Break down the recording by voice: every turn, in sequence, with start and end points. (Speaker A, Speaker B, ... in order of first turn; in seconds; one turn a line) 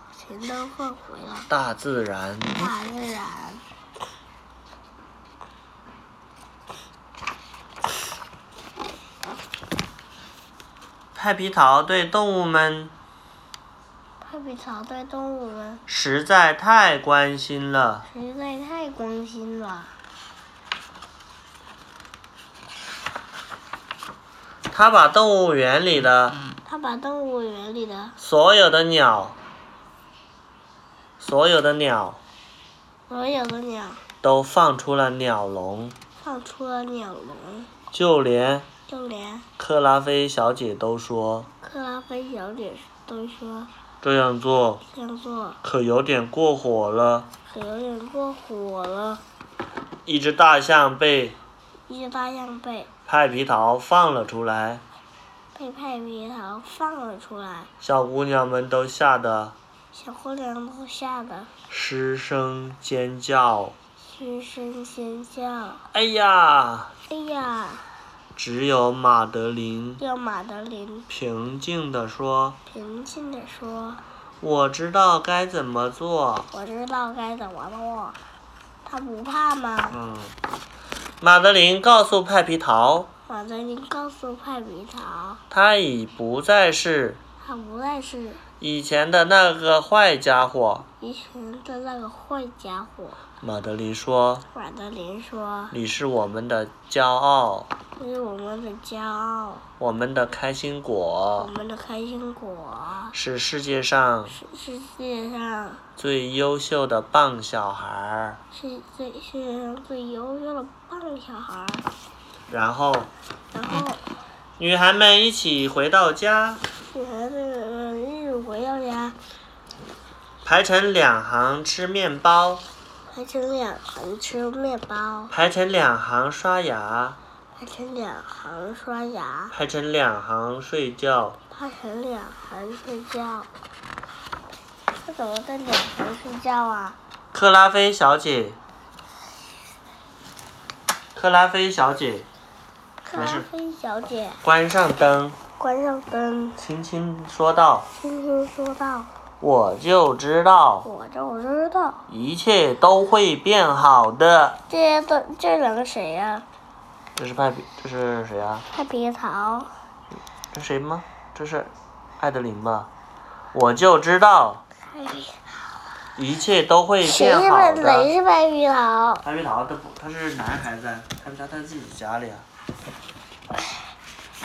Speaker A: 0.2-1.5
Speaker B: 1.5-2.7
Speaker A: 2.5-3.6
Speaker B: 11.1-12.9
Speaker A: 14.2-15.8
Speaker B: 15.9-18.1
Speaker A: 18.1-19.9
Speaker B: 24.7-26.4
Speaker A: 26.6-28.1
Speaker B: 28.2-29.4
Speaker B: 31.2-32.2
Speaker A: 33.1-34.0
Speaker B: 34.2-36.0
Speaker A: 36.2-37.7
Speaker B: 37.9-38.7
Speaker A: 38.9-39.5
Speaker B: 39.6-41.5
Speaker A: 41.6-43.7
Speaker B: 44.0-44.8
Speaker A: 44.9-45.6
Speaker B: 45.6-47.3
Speaker A: 47.5-49.2
Speaker B: 50.0-51.4
Speaker A: 51.9-52.9
Speaker B: 53.1-54.8
Speaker A: 55.5-57.7
Speaker B: 57.8-59.5
Speaker A: 59.9-61.5
Speaker B: 61.7-63.8
Speaker A: 64.1-65.8
Speaker B: 65.9-66.9
Speaker A: 67.1-67.9
Speaker B: 68.3-70.0
Speaker A: 70.0-71.1
Speaker B: 71.1-72.6
Speaker A: 72.7-74.0
Speaker B: 74.4-76.5
Speaker A: 76.5-78.2
Speaker A: 78.8-80.0
Speaker B: 79.9-80.3
Speaker B: 81.2-83.1
Speaker A: 83.3-85.4
Speaker B: 85.5-87.2
Speaker A: 87.4-88.4
Speaker B: 88.6-90.9
Speaker A: 91.0-93.2
Speaker B: 93.4-94.4
Speaker A: 94.5-95.8
Speaker B: 95.7-97.7
Speaker A: 98.0-99.6
Speaker B: 99.8-101.5
Speaker A: 101.4-103.1
Speaker B: 103.1-104.4
Speaker A: 104.3-105.8
Speaker B: 106.0-108.4
Speaker A: 108.5-111.9
Speaker B: 112.5-113.1
Speaker A: 113.5-114.0
Speaker B: 114.6-116.6
Speaker A: 116.9-119.2
Speaker B: 120.4-122.6
Speaker A: 123.1-125.3
Speaker B: 125.3-127.2
Speaker A: 127.5-129.5
Speaker B: 129.5-131.4
Speaker A: 131.5-133.5
Speaker A: 135.0-137.0
Speaker B: 137.3-138.6
Speaker B: 141.1-142.3
Speaker A: 143.0-144.4
Speaker B: 143.1-143.5
Speaker B: 144.4-145.4
Speaker A: 145.6-146.6
Speaker B: 146.6-147.9
Speaker A: 147.9-149.1
Speaker B: 149.4-150.9
Speaker A: 150.8-152.1
Speaker B: 152.1-154.6
Speaker A: 154.7-156.4
Speaker B: 157.2-158.7
Speaker A: 158.7-159.7
Speaker B: 160.5-162.9
Speaker B: 163.5-164.6
Speaker A: 164.9-165.4
Speaker B: 166.2-168.1
Speaker A: 167.0-169.2
Speaker B: 169.2-172.4